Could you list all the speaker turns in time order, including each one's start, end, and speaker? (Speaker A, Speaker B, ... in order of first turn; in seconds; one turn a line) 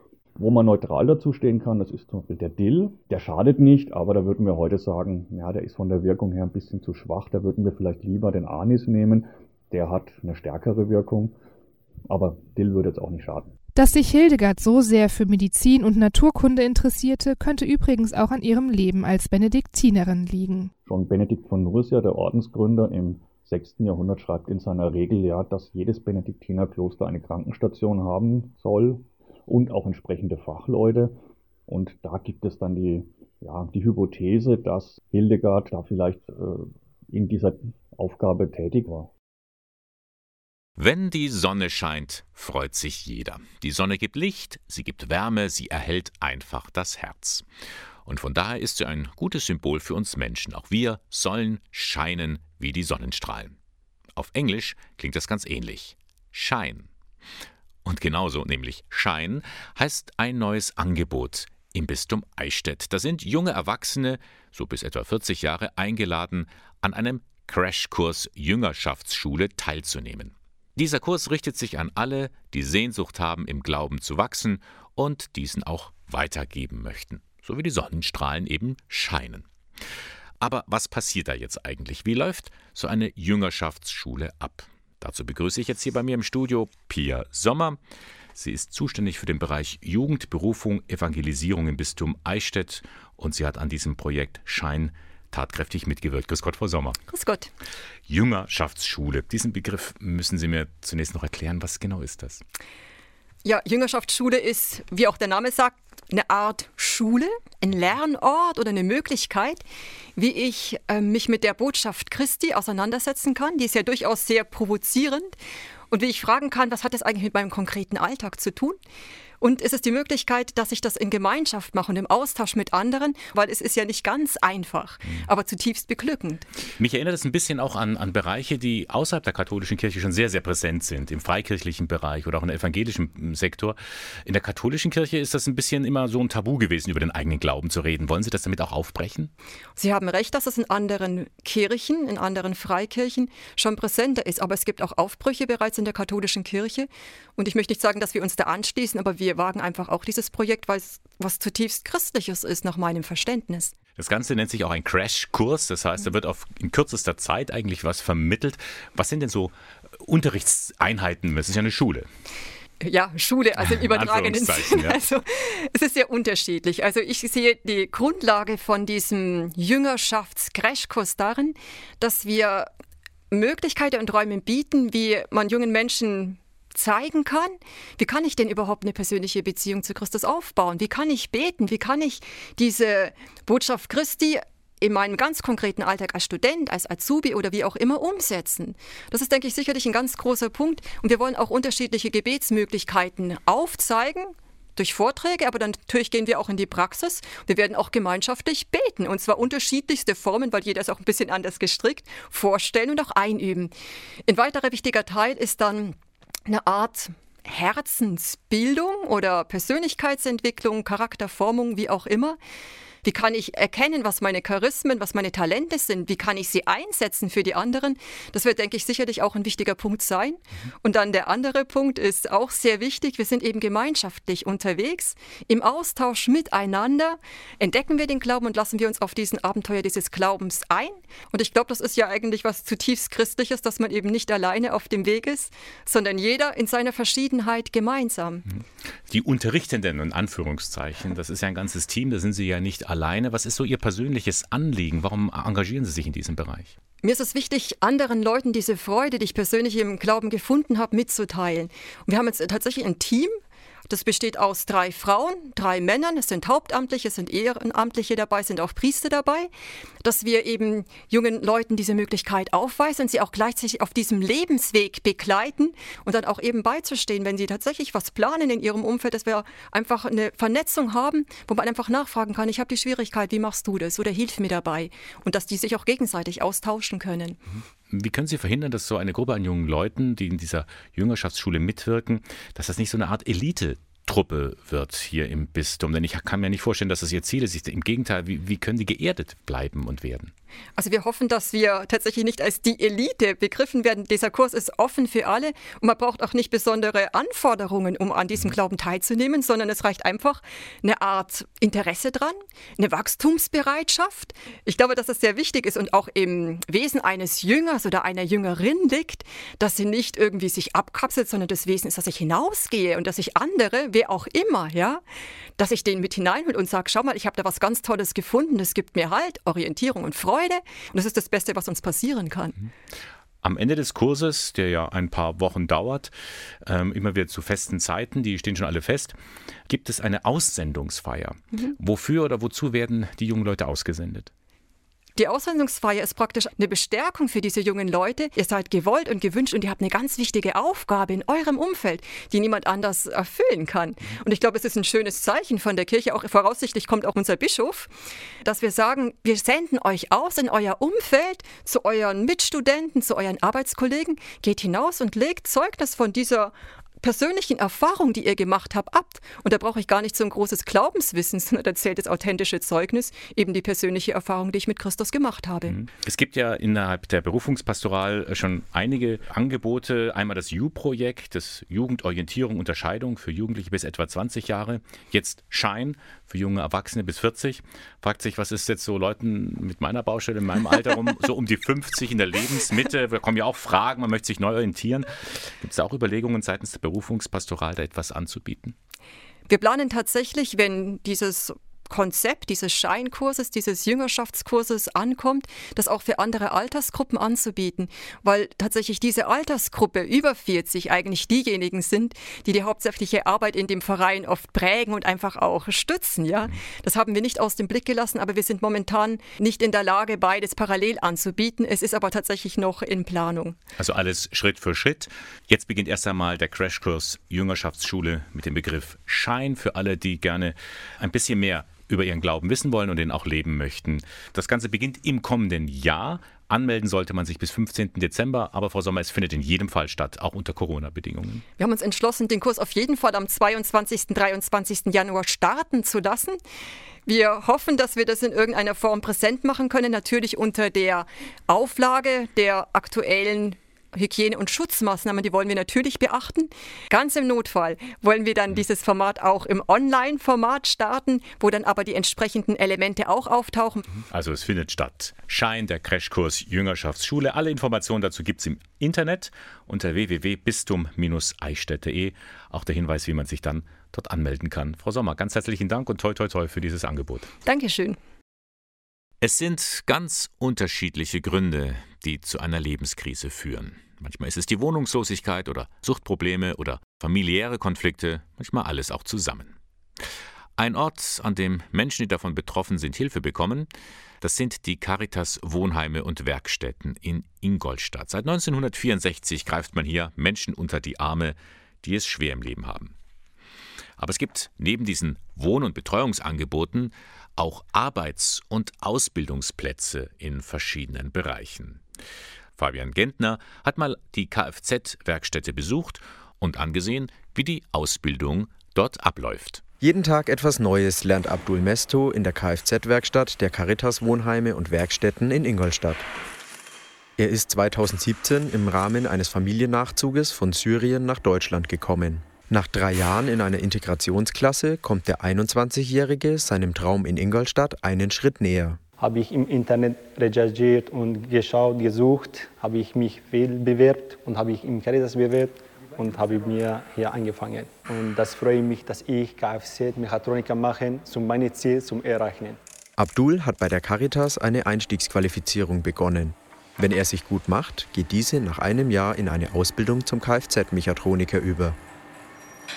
Speaker A: 0.3-11.3
Speaker A: 12.1-13.5
Speaker B: 13.7-20.7
Speaker A: 20.8-31.1
Speaker A: 31.7-39.1
Speaker C: 40.8-47.5
Speaker C: 48.0-53.6
Speaker C: 54.1-56.9
Speaker C: 57.8-79.5
Speaker C: 80.4-87.8
Speaker C: 88.3-97.0
Speaker D: 97.1-97.5
Speaker C: 98.1-102.4
Speaker D: 103.4-109.6
Speaker D: 110.2-115.3
Speaker D: 115.9-118.8
Speaker D: 119.4-126.5
Speaker C: 126.8-139.3
Speaker D: 139.8-153.7
Speaker C: 154.0-162.1
Speaker D: 162.8-172.7
Speaker C: 163.7-165.0
Speaker D: 173.3-203.7
Speaker D: 204.3-212.4
Speaker D: 213.0-238.4
Speaker C: 239.1-246.7
Speaker D: 247.0-253.3
Speaker D: 253.9-259.5
Speaker D: 260.0-277.4
Speaker C: 277.5-290.3
Speaker D: 290.8-315.0
Speaker D: 315.6-322.6
Speaker C: 323.4-326.1
Speaker C: 326.6-329.1
Speaker C: 329.7-334.3
Speaker D: 335.2-347.9
Speaker D: 348.4-365.7
Speaker C: 365.6-388.7
Speaker D: 389.5-413.6
Speaker C: 413.8-431.4
Speaker D: 431.6-436.4
Speaker D: 437.1-454.0
Speaker C: 454.1-467.3
Speaker D: 467.4-468.0
Speaker C: 469.2-479.6
Speaker C: 480.6-483.7
Speaker C: 484.2-492.9
Speaker C: 494.0-501.8
Speaker C: 502.6-509.6
Speaker E: 509.8-516.0
Speaker E: 517.2-528.8
Speaker F: 529.0-542.6
Speaker E: 543.0-551.8